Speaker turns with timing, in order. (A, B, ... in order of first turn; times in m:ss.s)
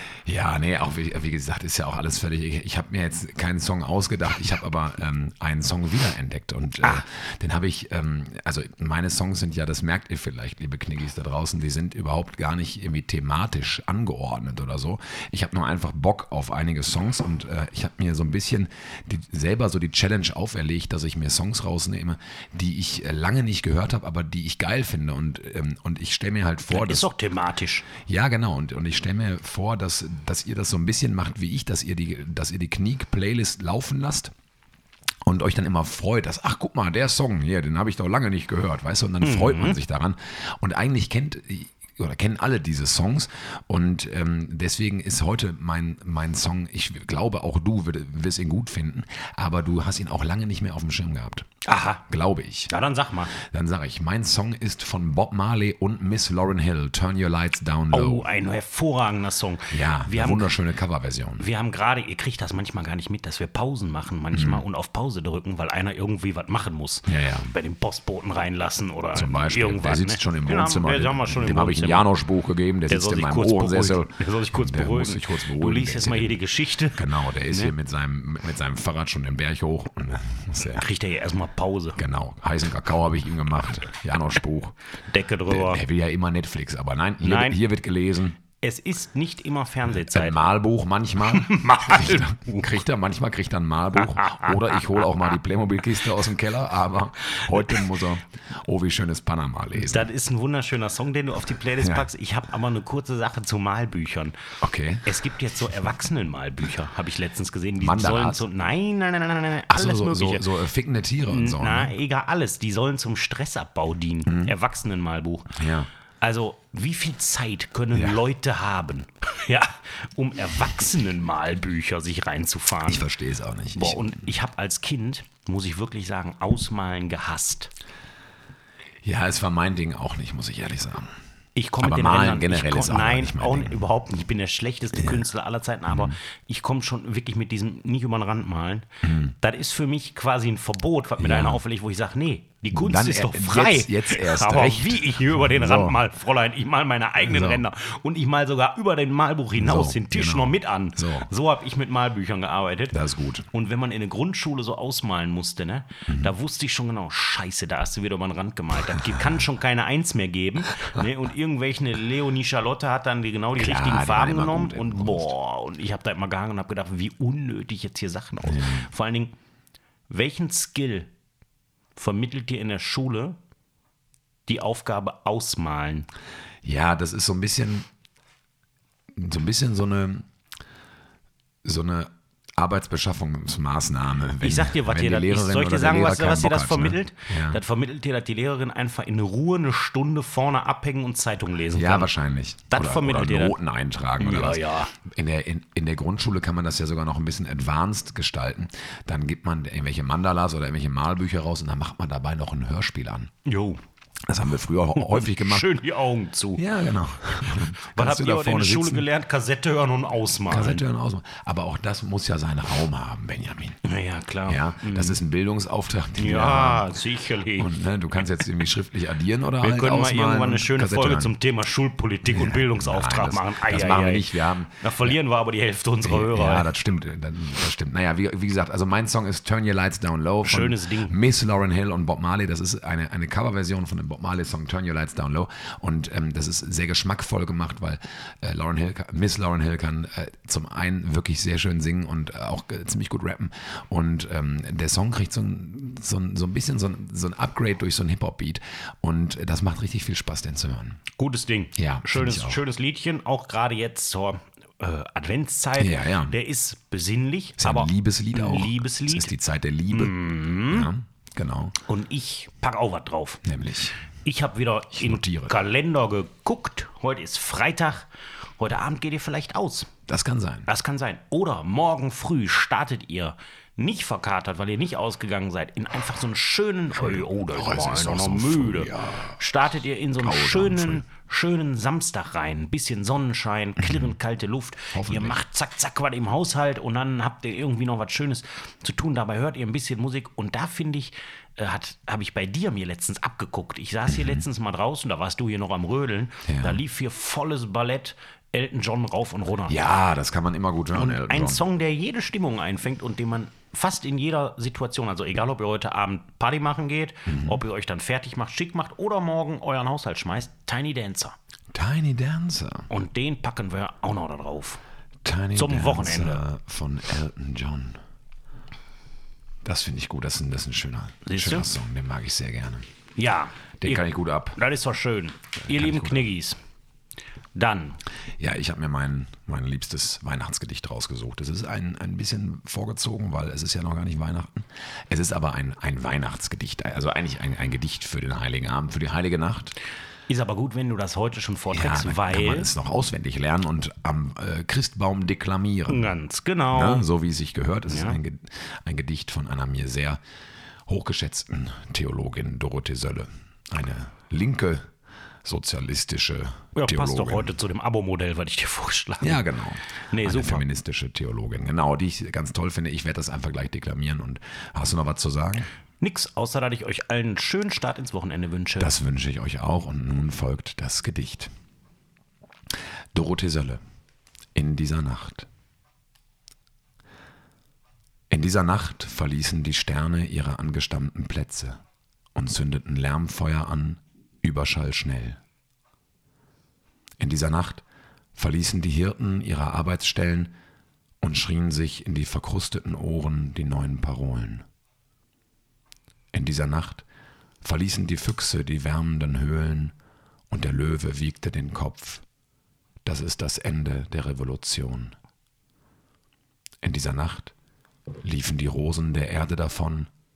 0:00.2-0:27.1 A
0:26.7-0:27.9 B
0:28.1-0:34.3 A
0:35.2-0:51.5 A
0:39.2-0:39.8 B
0:51.6-0:52.0 B
0:52.0-0:52.7 A
0:52.7-0:53.4 B
0:53.3-0:58.3 A
0:57.9-1:00.6 B
0:59.7-1:01.5 A
1:01.4-1:12.1 B
1:04.3-1:04.6 A
1:07.1-1:07.5 A
1:09.2-1:16.4 A
1:12.9-1:17.7 B
1:16.9-1:20.9 A
1:20.6-1:22.0 B
1:22.0-1:24.8 A
1:25.1-1:25.8 B
1:25.5-1:28.4 A
1:27.2-1:27.6 B
1:28.6-1:30.4 B
1:30.0-1:40.1 A
1:31.2-1:32.5 B
1:34.0-1:35.0 B
1:39.8-1:44.4 B
1:41.8-1:42.1 A
1:44.6-1:45.2 A
1:45.0-1:50.5 B
1:47.8-1:48.4 A
1:49.7-1:51.9 A
1:51.3-1:55.6 B
1:54.3-1:54.5 A
1:55.6-1:55.9 A
1:56.2-2:03.1 B
1:57.9-1:58.2 A
2:02.8-2:04.2 A
2:03.8-2:07.7 B
2:09.0-2:11.1 A
2:11.6-2:49.3 B
2:11.8-2:13.8 A
2:15.0-2:15.2 A
2:15.9-2:16.1 A
2:19.0-2:19.3 A
2:21.2-2:21.6 A
2:22.7-2:26.0 A
2:27.2-2:27.6 A
2:29.6-2:31.3 A
2:32.9-2:33.5 A
2:36.1-2:36.3 A
2:43.6-2:45.3 A
2:48.4-2:48.9 A
2:50.1-2:51.1 B
2:52.0-2:53.4 B
2:54.5-2:56.1 B
2:56.6-2:57.9 A
2:59.2-3:00.3 A
3:01.6-3:07.6 A
3:04.4-3:12.1 B
3:11.7-3:23.3 A
3:12.7-3:13.6 B
3:14.2-3:14.9 B
3:23.5-3:23.8 B
3:24.3-3:25.7 A
3:25.0-3:26.6 B
3:26.6-3:29.1 A
3:27.8-3:30.8 B
3:30.5-3:33.8 A
3:33.8-3:35.2 B
3:34.5-3:36.9 A
3:36.2-3:37.7 B
3:37.5-3:41.4 A
3:39.6-3:46.7 B
3:42.3-3:45.2 A
3:46.0-4:11.0 A
3:50.4-3:51.1 B
4:11.2-4:19.3 B
4:11.8-4:12.6 A
4:15.8-4:16.4 A
4:17.6-4:21.8 A
4:19.9-4:20.9 B
4:21.8-4:23.4 B
4:23.4-4:24.0 A
4:24.2-4:29.9 B
4:24.9-4:25.6 A
4:30.1-4:30.7 A
4:30.7-4:59.8 B
4:37.0-4:39.4 A
4:40.2-4:41.0 A
4:43.8-4:44.1 A
4:44.9-4:45.4 A
4:54.1-4:54.4 A
4:56.5-4:56.8 A
4:59.7-5:01.6 A
5:00.9-5:11.4 B
5:07.3-5:07.6 A
5:11.7-5:12.9 A
5:12.9-5:14.8 B
5:15.2-5:18.0 A
5:15.6-5:16.4 B
5:19.6-5:22.9 A
5:21.2-5:21.7 B
5:23.2-5:26.6 B
5:23.8-5:24.6 A
5:25.6-5:26.3 A
5:27.6-5:28.0 B
5:28.4-5:39.8 A
5:40.3-5:42.7 B
5:41.7-5:46.2 A
5:45.9-5:47.1 B
5:46.7-5:50.2 A
5:47.9-5:48.2 B
5:50.9-5:54.8 A
5:55.4-5:57.5 A
5:56.8-5:59.4 B
5:59.2-6:05.7 A
6:00.0-6:00.6 B
6:06.0-6:09.0 B
6:08.8-6:11.5 A
6:13.2-6:13.8 A
6:14.6-6:15.5 A
6:18.3-6:21.8 A
6:22.4-6:25.4 A
6:27.2-6:27.8 A
6:28.4-6:30.5 A
6:31.2-6:34.6 A
6:36.3-6:37.1 A
6:37.6-6:39.9 A
6:40.5-6:42.2 A
6:43.0-6:45.2 A
6:46.8-6:47.5 A
6:48.2-6:50.1 A